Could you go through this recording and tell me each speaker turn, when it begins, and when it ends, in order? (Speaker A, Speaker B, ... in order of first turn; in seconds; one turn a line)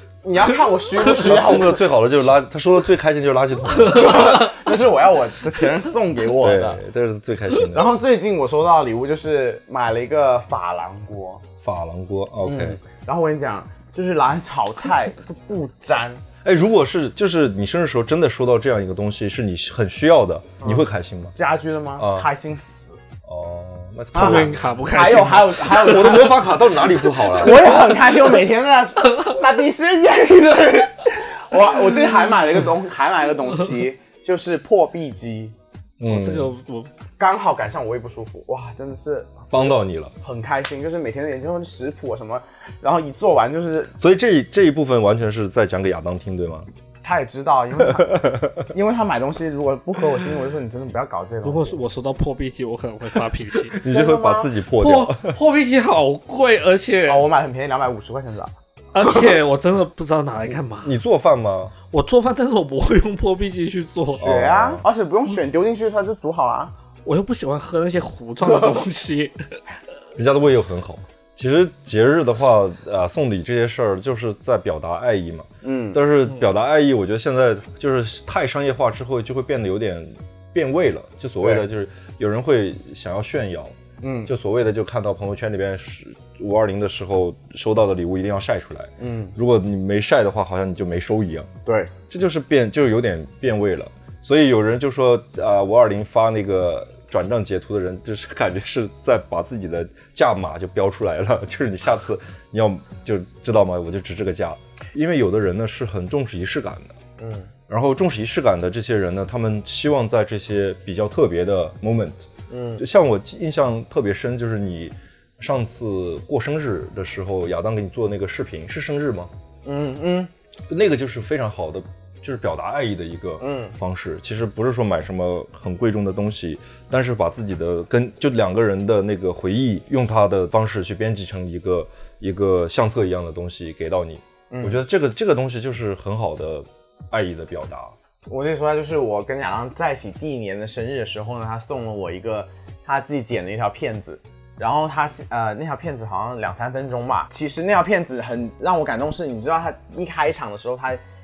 Speaker A: 0.2-1.8
Speaker B: 1.0-4.3
Speaker A: 3.9-6.8
Speaker C: 4.0-4.5
Speaker B: 6.3-7.9
Speaker A: 7.7-11.4
Speaker B: 11.6-12.8
Speaker A: 12.4-16.2
Speaker B: 16.4-21.3
Speaker A: 20.6-23.0
Speaker B: 22.0-22.3
Speaker B: 23.2-24.6
Speaker A: 24.1-35.5
Speaker C: 24.1-26.2
Speaker B: 25.7-27.6
Speaker B: 36.0-36.5
Speaker C: 36.0-36.9
Speaker A: 37.2-43.9
Speaker B: 39.5-40.1
Speaker B: 44.0-46.7
Speaker A: 47.0-51.8
Speaker B: 47.8-48.6
Speaker C: 51.4-53.8
Speaker B: 53.7-55.4
Speaker A: 53.8-54.5
Speaker C: 54.8-57.2
Speaker A: 57.1-58.5
Speaker C: 58.9-60.9
Speaker B: 60.8-61.7
Speaker C: 61.9-64.2
Speaker B: 64.2-64.8
Speaker A: 64.2-66.7
Speaker C: 67.0-69.4
Speaker B: 70.2-91.5
Speaker A: 75.6-76.0
Speaker A: 84.0-84.3
Speaker A: 89.0-89.3
Speaker A: 91.7-91.9
Speaker B: 92.1-107.0
Speaker A: 107.2-107.5
Speaker B: 107.7-119.3
Speaker A: 112.5-112.8
Speaker A: 119.6-120.3
Speaker B: 120.7-137.9
Speaker A: 123.4-123.7
Speaker A: 134.5-134.8
Speaker A: 138.3-151.0